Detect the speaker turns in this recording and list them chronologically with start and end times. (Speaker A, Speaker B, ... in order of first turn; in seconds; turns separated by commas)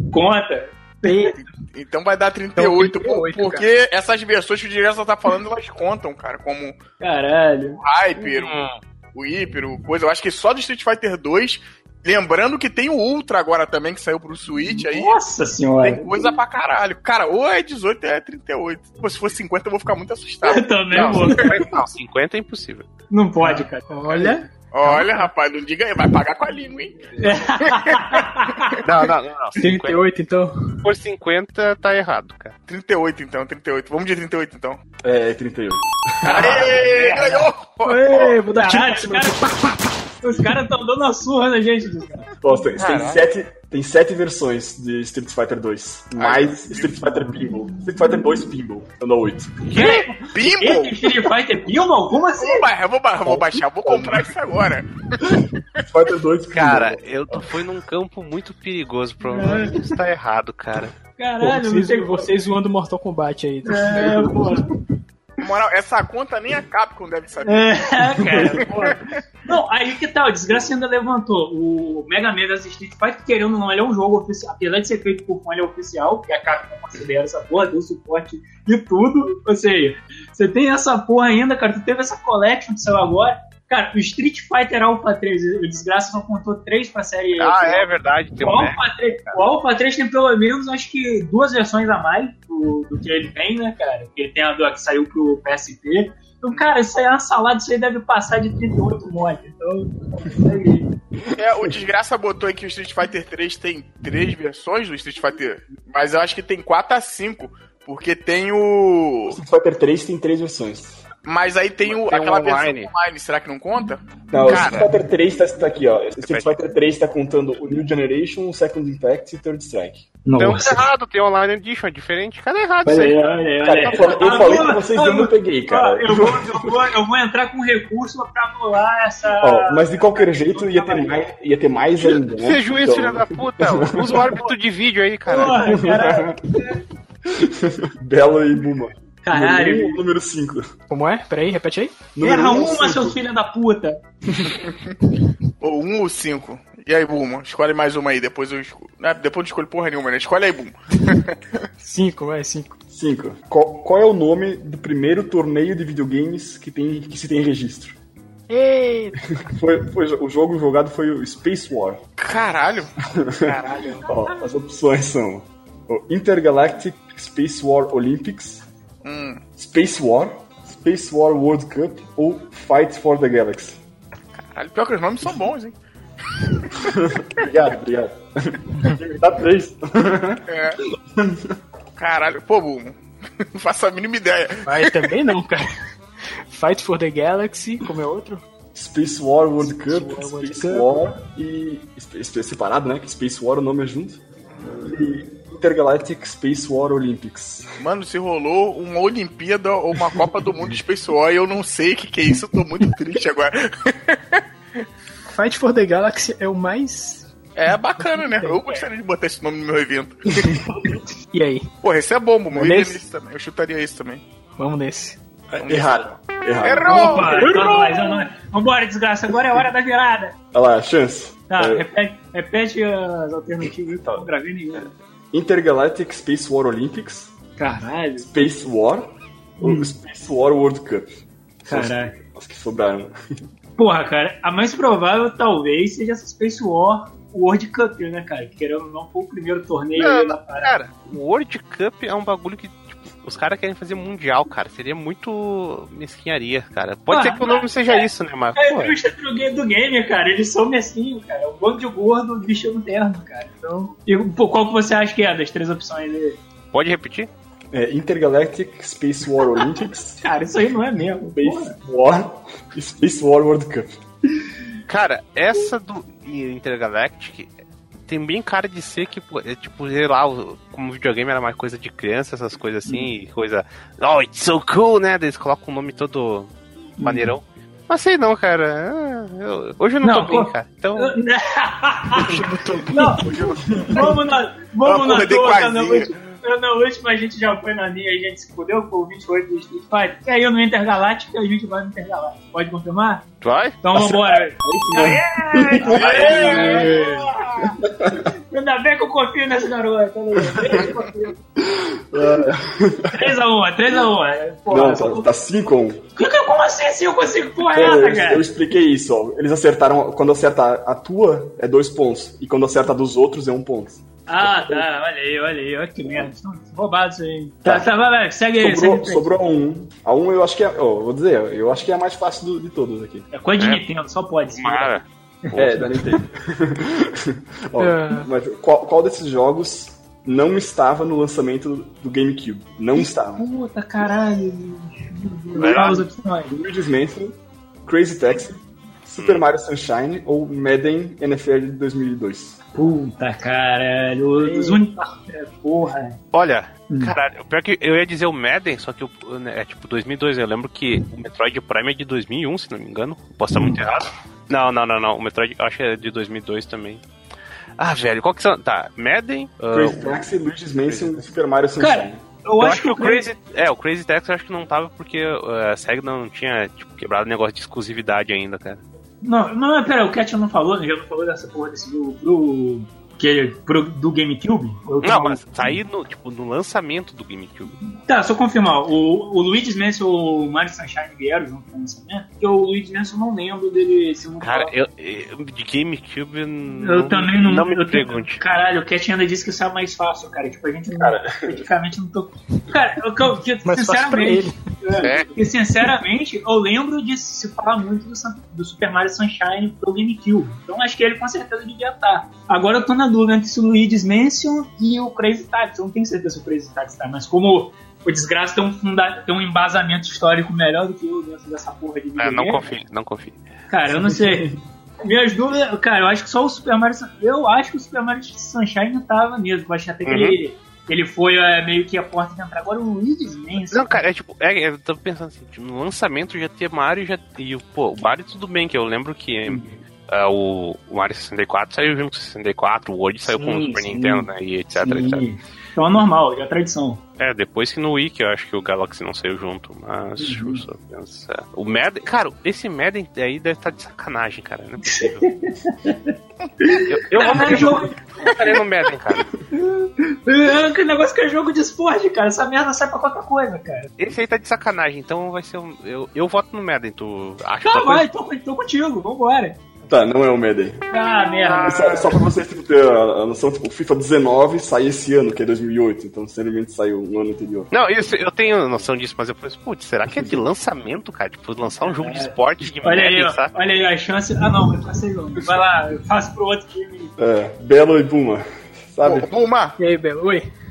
Speaker A: 0.1-1.3, Speaker B: 1.0-1.4, Speaker C: 1.4-6.8, Speaker B: 2.6-3.6, Speaker A: 7.0-7.8, Speaker C: 7.8-8.6, Speaker D: 8.2-8.8, Speaker C: 9.1-15.2, Speaker A: 14.7-16.1, Speaker C: 15.8-21.5, Speaker A: 20.4-21.5, Speaker D: 20.9-22.9, Speaker A: 23.1-23.9, Speaker B: 23.4-25.3, Speaker C: 24.2-28.2, Speaker A: 27.2-28.8, Speaker D: 28.8-30.0, Speaker B: 29.6-30.8, Speaker D: 30.8-32.5, Speaker C: 32.7-34.8, Speaker E: 35.0-36.7, Speaker A: 36.2-37.5, Speaker C: 36.2-38.4, Speaker B: 37.8-39.9, Speaker A: 38.5-39.5, Speaker A: 40.2-42.3, Speaker E: 42.4-49.6, Speaker D: 42.8-43.2, Speaker C: 46.1-47.1, Speaker A: 49.7-52.7, Speaker D: 49.7-50.0, Speaker C: 49.8-51.1, Speaker C: 52.4-55.4, Speaker E: 53.2-54.3, Speaker E: 55.2-57.5, Speaker D: 56.5-61.0, Speaker A: 59.3-59.8, Speaker A: 61.2-62.3, Speaker B: 61.4-64.7, Speaker A: 63.6-64.7, Speaker C: 65.4-69.0, Speaker A: 67.4-87.9, Speaker D: 87.4-89.4, Speaker A: 88.4-100.9, Speaker E: 101.2-101.8, Speaker C: 101.3-109.4, Speaker E: 109.3-111.0, Speaker C: 111.2-114.1, Speaker D: 111.8-112.9, Speaker E: 114.3-120.0, Speaker D: 114.4-114.9, Speaker D: 116.2-116.5, Speaker A: 120.2-120.8, Speaker D: 120.4-124.6, Speaker A: 122.8-131.2, Speaker E: 123.6-126.7, Speaker E: 129.4-134.4, Speaker D: 132.1-135.8, Speaker A: 135.3-136.8, Speaker E: 135.6-136.4, Speaker E: 137.3-140.7, Speaker A: 139.2-140.0, Speaker B: 140.9-142.1, Speaker E: 142.1-143.2, Speaker A: 142.2-144.0, Speaker E: 144.3-144.6, Speaker C: 145.6-151.7, Speaker B: 151.8-152.8, Speaker E: 152.9-158.0, Speaker B: 158.5-159.4, Speaker E: 159.2-162.0, Speaker C: 162.2-164.1, Speaker E: 163.1-168.6, Speaker C: 169.0-169.4, Speaker E: 169.6-173.8, Speaker C: 174.3-175.8, Speaker C: 176.4-176.9, Speaker E: 176.8-180.4, Speaker C: 180.5-180.8, Speaker E: 181.1-181.6, Speaker C: 182.0-183.0, Speaker C: 183.5-185.1, Speaker B: 184.7-185.6, Speaker B: 186.5-188.4, Speaker E: 188.7-194.2, Speaker B: 189.6-190.9, Speaker E: 194.8-197.8, Speaker C: 197.8-204.4, Speaker B: 205.3-207.3, Speaker C: 207.6-210.6, Speaker B: 208.0-208.6, Speaker B: 210.8-211.7, Speaker C: 211.8-214.2, Speaker B: 212.5-213.0, Speaker B: 214.6-215.2, Speaker E: 215.5-217.4, Speaker C: 215.6-216.0, Speaker C: 216.6-217.7, Speaker A: 216.8-220.3, Speaker B: 217.4-218.1, Speaker E: 220.5-221.8, Speaker A: 221.5-224.9, Speaker E: 225.3-227.3, Speaker A: 227.6-228.3, Speaker E: 228.2-233.1, Speaker A: 229.6-229.9, Speaker A: 231.7-232.2, Speaker A: 233.8-240.8, Speaker D: 240.0-248.9, Speaker A: 247.1-256.4, Speaker D: 256.7-257.3, Speaker E: 257.7-260.2, Speaker A: 260.2-261.8, Speaker E: 261.3-264.0, Speaker D: 264.9-267.5, Speaker D: 268.1-281.2, Speaker A: 277.0-277.3, Speaker A: 280.0-283.3, Speaker B: 282.2-283.5, Speaker E: 283.2-284.1, Speaker A: 283.9-293.2, Speaker C: 284.8-286.1, Speaker D: 293.4-293.8, Speaker A: 293.8-297.8, Speaker E: 293.9-297.1, Speaker C: 295.9-296.8, Speaker D: 296.0-296.4, Speaker E: 297.8-298.2, Speaker A: 298.5-301.4, Speaker E: 300.5-300.9, Speaker E: 301.6-303.4, Speaker A: 303.1-305.3, Speaker E: 304.7-306.0, Speaker A: 306.1-308.5, Speaker E: 307.6-314.9, Speaker A: 314.3-319.3, Speaker E: 318.6-323.3, Speaker A: 323.3-324.9, Speaker D: 323.6-323.8, Speaker D: 324.5-325.7, Speaker E: 325.5-333.4, Speaker B: 327.8-328.3, Speaker A: 332.9-336.6, Speaker D: 335.6-336.1, Speaker E: 336.5-342.6, Speaker D: 339.2-339.4, Speaker A: 342.7-346.2, Speaker B: 344.5-344.8, Speaker D: 346.3-357.0, Speaker A: 346.9-347.1, Speaker D: 357.8-360.1, Speaker E: 359.7-362.2, Speaker D: 360.9-361.2, Speaker A: 361.8-363.2, Speaker D: 362.6-368.8, Speaker A: 369.2-375.8, Speaker D: 375.0-377.8, Speaker A: 378.0-384.7, Speaker D: 384.4-388.4, Speaker A: 386.8-412.7, Speaker E: 390.9-391.6, Speaker B: 393.6-394.6, Speaker D: 395.0-395.3, Speaker D: 412.2-413.4, Speaker A: 413.7-424.0, Speaker E: 413.9-414.6, Speaker D: 420.0-420.4, Speaker D: 423.7-435.3, Speaker A: 429.5-429.7, Speaker A: 433.3-437.0, Speaker D: 437.2-445.3, Speaker A: 440.2-440.6, Speaker A: 444.8-448.3, Speaker D: 446.8-449.3, Speaker A: 449.5-453.9, Speaker D: 454.0-458.1, Speaker A: 457.6-459.6, Speaker E: 459.9-460.9, Speaker A: 460.9-462.1, Speaker D: 461.4-462.1, Speaker E: 461.6-467.7, Speaker D: 467.7-473.6, Speaker A: 471.8-477.1, Speaker E: 477.2-479.3, Speaker C: 479.0-479.8, Speaker B: 479.8-480.5